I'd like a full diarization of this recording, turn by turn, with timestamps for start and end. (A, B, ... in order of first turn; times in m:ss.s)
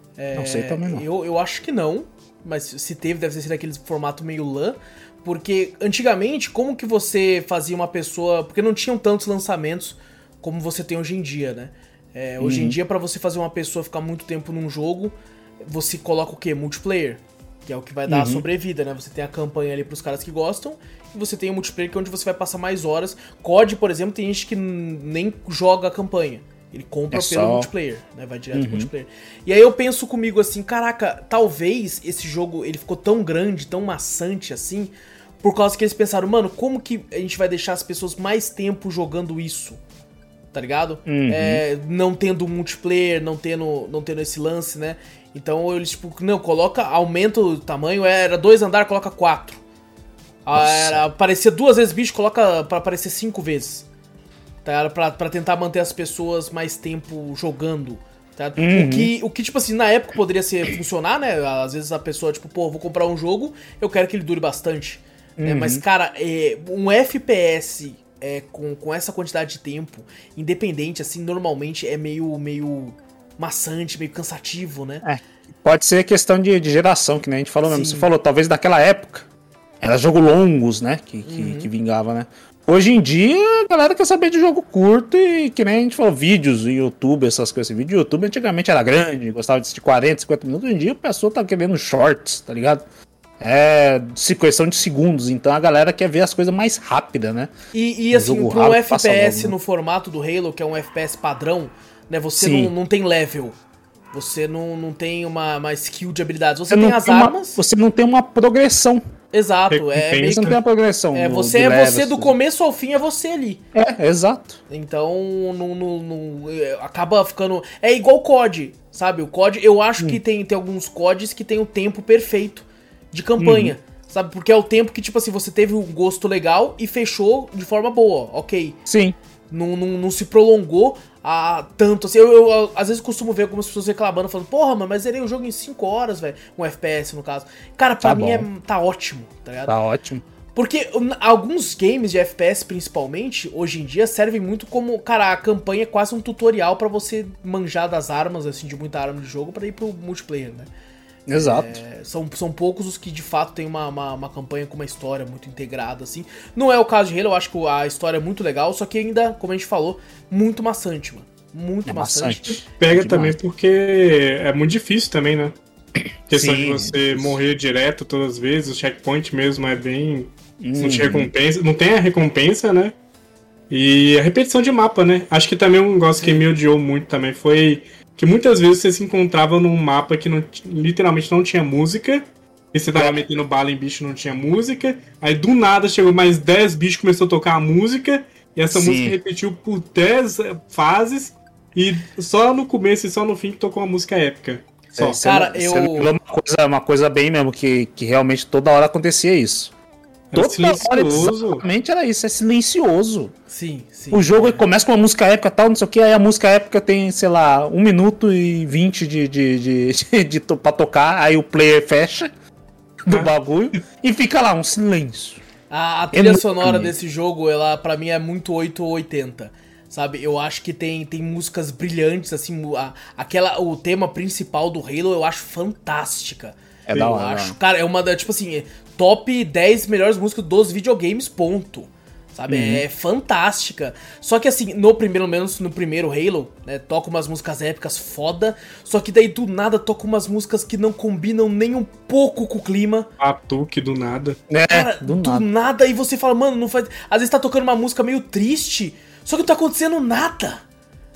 0:00.2-0:39.8 A
0:00.3-0:01.0 B
0:12.4-0:12.8 B
0:18.1-0:18.4 B
0:27.1-0:27.7 B
0:28.5-0:28.9 B
0:40.5-0:49.6 A
0:41.0-0:41.6 B
0:50.4-0:53.9 A
0:50.5-0:51.0 B
0:54.6-1:15.0 A
0:58.6-0:59.1 B
1:05.4-1:05.8 B
1:15.0-1:19.2 B
1:17.6-1:18.1 A
1:19.8-1:32.8 B
1:21.2-1:21.7 A
1:33.4-1:37.5 B
1:37.7-1:43.6 A
1:38.1-1:39.6 B
1:42.4-1:42.7 B
1:44.1-1:47.6 A
1:46.7-1:49.0 B
1:49.3-1:50.6 A
1:49.7-1:50.6 C
1:50.3-1:52.3 B
1:51.1-1:53.6 A
1:53.7-1:54.6 B
1:54.7-2:08.8 A
2:03.4-2:03.7 B
2:08.8-2:09.2 B
2:09.5-2:19.7 A
2:18.0-2:18.5 B
2:19.7-2:20.2 B
2:20.5-2:30.7 A
2:31.3-2:31.8 B
2:31.3-2:42.6 A
2:41.8-2:43.4 B
2:42.6-2:45.6 C
2:46.3-2:52.9 C
2:46.3-2:47.4 B
2:50.6-2:51.3 B
2:53.7-3:15.2 C
3:02.9-3:03.2 B
3:08.7-3:09.2 B
3:14.9-3:19.7 B
3:15.2-3:16.1 A
3:20.3-3:21.6 C
3:20.3-3:23.3 B
3:23.5-3:24.6 A
3:24.1-3:32.3 B
3:33.0-3:35.4 B
3:35.7-4:03.1 A
3:36.1-3:36.9 B
3:46.9-3:47.6 B
3:52.5-3:52.8 B
4:03.2-4:04.4 C
4:04.5-4:05.4 B
4:04.7-4:10.6 A